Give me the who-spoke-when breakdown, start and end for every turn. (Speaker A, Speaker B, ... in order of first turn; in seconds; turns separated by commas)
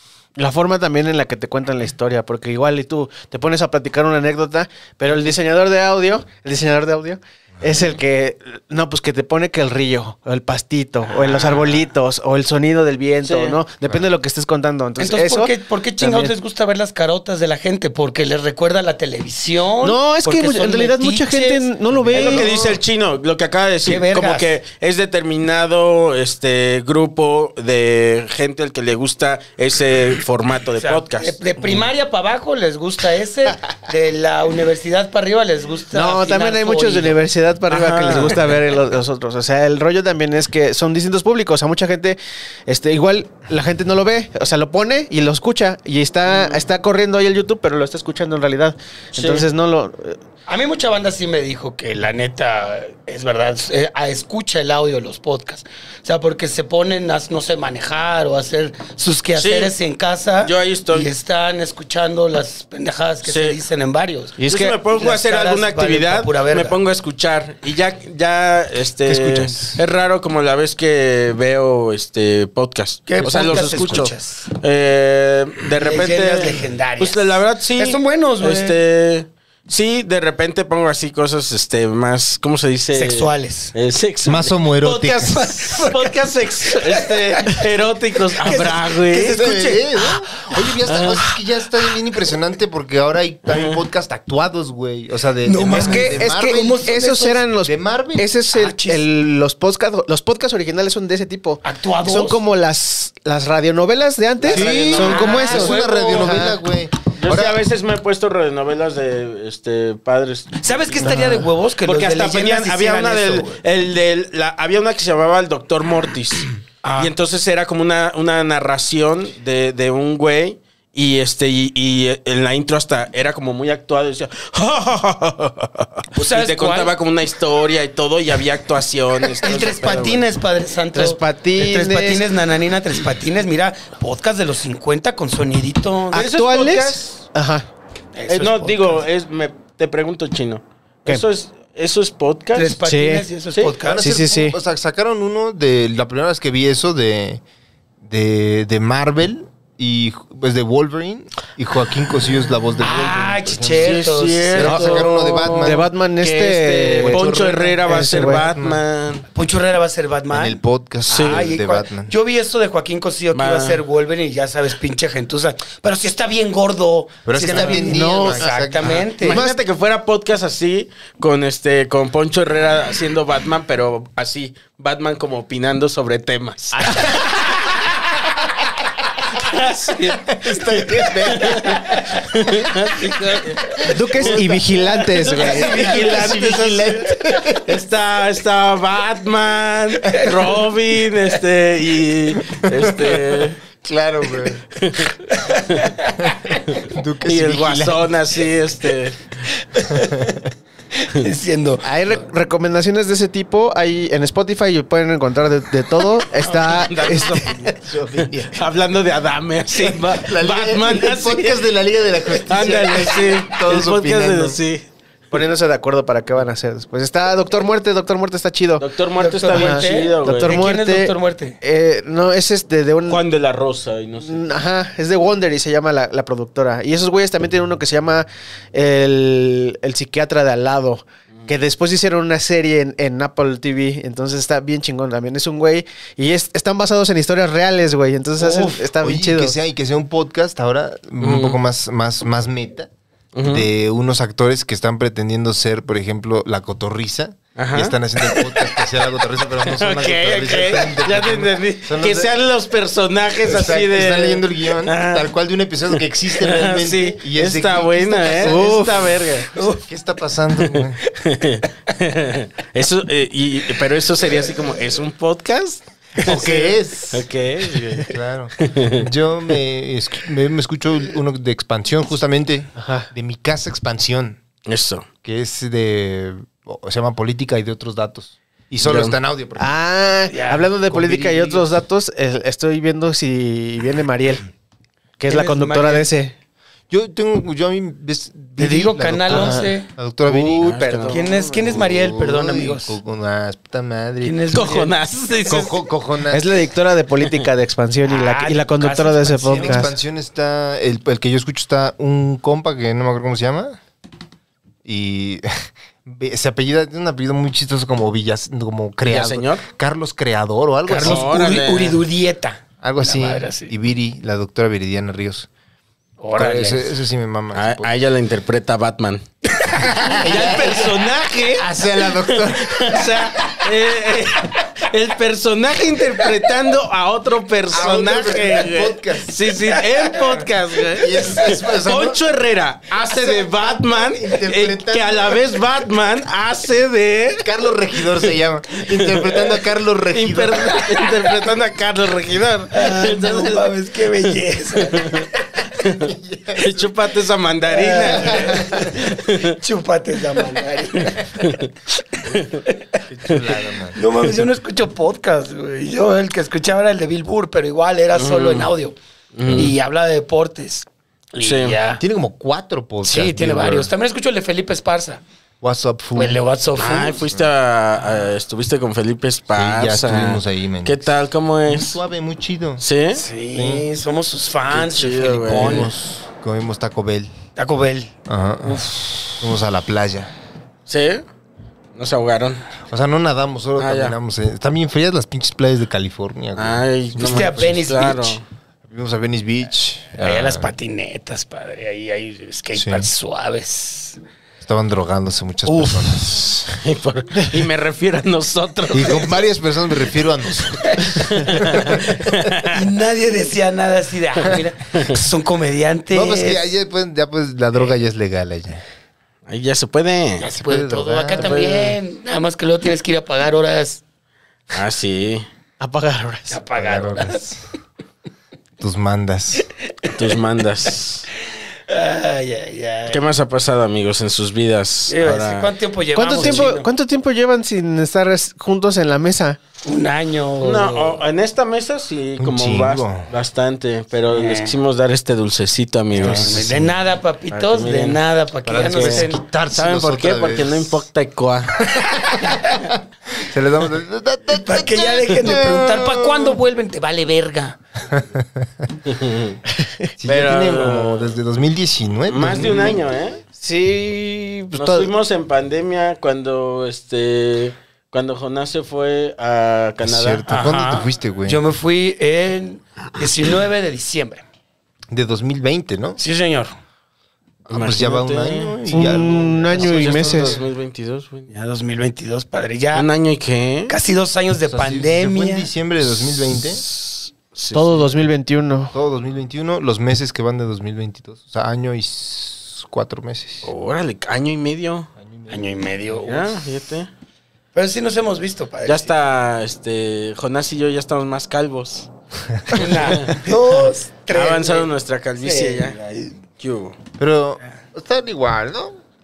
Speaker A: 0.4-16.4, Speaker B: 11.1-11.8, Speaker B: 13.2-13.6, Speaker C: 15.0-22.8, Speaker A: 19.8-22.5, Speaker B: 22.1-31.8, Speaker C: 23.9-24.5, Speaker C: 30.8-37.2, Speaker A: 35.9-50.2, Speaker B: 37.7-38.5, Speaker B: 49.2-49.5, Speaker C: 50.5-64.4, Speaker B: 59.4-59.7, Speaker B: 60.4-61.1, Speaker B: 63.2-63.6, Speaker A: 64.4-64.8, Speaker B: 64.5-89.5, Speaker C: 64.9-66.8, Speaker A: 69.1-69.8, Speaker C: 73.1-74.5, Speaker D: 73.2-74.1, Speaker C: 75.7-78.8, Speaker C: 82.9-83.7, Speaker D: 84.2-85.5, Speaker C: 84.9-87.7, Speaker C: 88.3-90.5, Speaker D: 89.3-96.9, Speaker B: 90.9-91.2, Speaker B: 93.5-93.8, Speaker C: 95.4-97.4, Speaker A: 95.7-106.6, Speaker D: 97.6-98.3, Speaker C: 98.5-99.0, Speaker C: 101.6-102.4, Speaker B: 104.4-105.8, Speaker D: 104.5-107.6, Speaker C: 104.5-106.4, Speaker B: 107.2-130.3, Speaker C: 110.6-113.6, Speaker C: 116.8-117.1, Speaker C: 126.1-126.9, Speaker C: 129.4-136.3, Speaker A: 130.9-132.3, Speaker B: 136.1-137.2, Speaker A: 136.1-137.7, Speaker C: 138.2-139.0, Speaker B: 138.3-142.8, Speaker C: 142.6-144.1, Speaker A: 142.8-143.3, Speaker D: 143.8-147.4, Speaker A: 144.0-144.6, Speaker D: 148.0-155.9, Speaker C: 152.8-155.1, Speaker B: 153.8-159.2, Speaker A: 155.6-157.2, Speaker D: 157.0-158.8, Speaker A: 157.8-158.5, Speaker C: 159.3-169.4, Speaker D: 160.3-162.1, Speaker B: 161.1-161.5, Speaker B: 163.3-163.8, Speaker D: 167.3-169.0, Speaker A: 167.5-168.6, Speaker B: 168.8-177.9, Speaker A: 169.2-169.6, Speaker D: 176.9-177.3, Speaker B: 179.3-193.6, Speaker D: 180.1-182.6, Speaker D: 183.7-184.4, Speaker A: 183.8-185.9, Speaker D: 185.2-187.8, Speaker C: 185.8-186.1, Speaker D: 192.7-194.7, Speaker B: 194.7-195.2, Speaker C: 195.3-196.6, Speaker D: 196.2-198.1, Speaker B: 197.2-199.4, Speaker C: 199.8-200.3, Speaker D: 199.9-200.4, Speaker C: 201.0-201.8, Speaker A: 201.8-207.4, Speaker B: 206.4-211.6, Speaker D: 207.0-208.6, Speaker D: 209.7-214.6, Speaker B: 212.5-214.8, Speaker A: 215.3-218.9, Speaker B: 218.8-220.6, Speaker C: 219.2-221.6, Speaker A: 219.5-223.2, Speaker B: 223.1-224.5, Speaker A: 224.2-239.6, Speaker C: 238.4-238.8, Speaker D: 238.9-242.9, Speaker B: 241.2-241.6, Speaker B: 243.3-243.7, Speaker D: 243.4-252.3, Speaker B: 247.6-248.9, Speaker B: 249.6-255.3, Speaker D: 253.4-259.2, Speaker B: 256.3-259.5, Speaker A: 258.5-258.9, Speaker C: 259.5-259.8, Speaker D: 259.8-261.0, Speaker B: 260.6-269.1, Speaker D: 266.2-267.3, Speaker D: 268.0-274.4, Speaker A: 272.8-273.1, Speaker B: 274.7-275.1, Speaker D: 275.2-279.7, Speaker B: 278.8-279.2, Speaker A: 279.6-284.5, Speaker C: 280.3-281.6, Speaker A: 285.2-286.3, Speaker C: 285.3-286.1, Speaker D: 286.9-294.4, Speaker C: 288.6-289.9, Speaker A: 289.3-289.7, Speaker A: 290.3-291.3, Speaker B: 290.5-291.8, Speaker C: 291.1-293.0, Speaker C: 294.2-295.7, Speaker B: 294.5-295.8, Speaker D: 295.5-296.5, Speaker A: 296.3-299.9, Speaker C: 298.1-299.9, Speaker D: 299.6-303.8, Speaker D: 304.9-311.3, Speaker B: 309.1-309.6, Speaker C: 310.9-313.7, Speaker B: 310.9-312.0, Speaker D: 312.8-315.5, Speaker C: 316.2-316.9, Speaker D: 316.4-317.9, Speaker B: 317.5-319.2, Speaker C: 319.6-320.8, Speaker D: 319.8-320.9, Speaker B: 320.1-337.5, Speaker D: 321.6-323.3, Speaker D: 327.7-329.4, Speaker C: 329.7-330.1, Speaker D: 330.9-332.2, Speaker D: 333.0-335.6, Speaker D: 337.4-341.0, Speaker B: 338.7-339.6, Speaker B: 340.1-349.6, Speaker C: 342.7-345.5, Speaker D: 346.0-346.9, Speaker C: 347.7-349.0, Speaker D: 348.0-349.0, Speaker C: 349.6-351.7, Speaker B: 351.4-351.7, Speaker B: 352.4-352.6, Speaker D: 353.1-354.0, Speaker C: 353.9-359.0, Speaker B: 358.1-358.7, Speaker B: 359.3-359.7, Speaker D: 359.5-359.7, Speaker C: 359.5-362.0, Speaker B: 361.4-361.8, Speaker D: 362.0-363.9, Speaker C: 363.1-365.2, Speaker D: 365.6-366.4, Speaker C: 366.2-367.2, Speaker B: 366.8-372.0, Speaker D: 369.5-371.1, Speaker D: 371.7-372.8, Speaker B: 372.8-373.2, Speaker C: 373.1-375.9, Speaker D: 373.5-373.9, Speaker B: 374.7-375.9, Speaker D: 374.7-377.3, Speaker C: 377.6-378.1, Speaker D: 378.3-380.3, Speaker B: 380.9-381.2, Speaker B: 381.9-382.6, Speaker D: 382.9-387.8, Speaker B: 383.8-384.2, Speaker B: 386.6-388.4, Speaker C: 387.2-388.4, Speaker D: 388.9-390.7, Speaker C: 390.2-394.2, Speaker D: 392.8-393.1, Speaker D: 394.6-396.8, Speaker B: 396.7-399.4, Speaker D: 398.9-402.4, Speaker C: 400.9-401.2, Speaker B: 401.2-402.8, Speaker C: 402.7-406.7, Speaker B: 404.9-405.2, Speaker D: 406.1-408.8, Speaker B: 409.5-410.5, Speaker C: 410.4-414.0, Speaker D: 410.6-411.6, Speaker B: 411.3-412.0, Speaker B: 414.7-415.5, Speaker A: 415.8-416.6, Speaker C: 416.5-417.4, Speaker D: 416.8-417.6, Speaker D: 418.8-419.7, Speaker B: 420.1-421.3, Speaker C: 421.9-423.2, Speaker B: 423.1-425.7, Speaker C: 425.1-426.9, Speaker A: 426.1-429.6, Speaker B: 426.4-426.7, Speaker C: 429.8-431.2, Speaker B: 430.6-436.7, Speaker D: 432.4-433.3, Speaker C: 434.3-434.8, Speaker C: 436.1-439.4, Speaker D: 436.2-436.9, Speaker B: 437.5-438.2, Speaker D: 438.6-441.0, Speaker B: 438.7-442.0, Speaker D: 441.8-446.6, Speaker C: 444.5-447.8, Speaker D: 448.1-448.9, Speaker B: 449.1-449.6, Speaker A: 449.8-450.1, Speaker D: 450.2-453.0, Speaker B: 450.2-451.4, Speaker B: 452.3-453.4, Speaker A: 453.6-455.1, Speaker B: 454.7-460.5, Speaker D: 460.0-461.6, Speaker C: 460.5-464.4, Speaker D: 465.1-466.2, Speaker C: 466.2-466.7, Speaker D: 467.7-470.6, Speaker B: 467.7-468.8, Speaker A: 468.9-470.6, Speaker B: 469.7-471.5, Speaker C: 471.5-473.1, Speaker B: 472.9-473.9, Speaker C: 473.9-475.7, Speaker D: 474.7-476.8, Speaker B: 476.5-478.1, Speaker A: 477.7-478.9, Speaker D: 478.9-483.7, Speaker B: 483.6-485.1, Speaker D: 485.2-485.7, Speaker C: 485.5-486.7, Speaker B: 486.2-487.1, Speaker C: 487.8-489.1, Speaker B: 488.9-492.1, Speaker B: 492.7-496.0, Speaker C: 492.7-496.4, Speaker B: 496.6-496.9, Speaker D: 497.2-499.0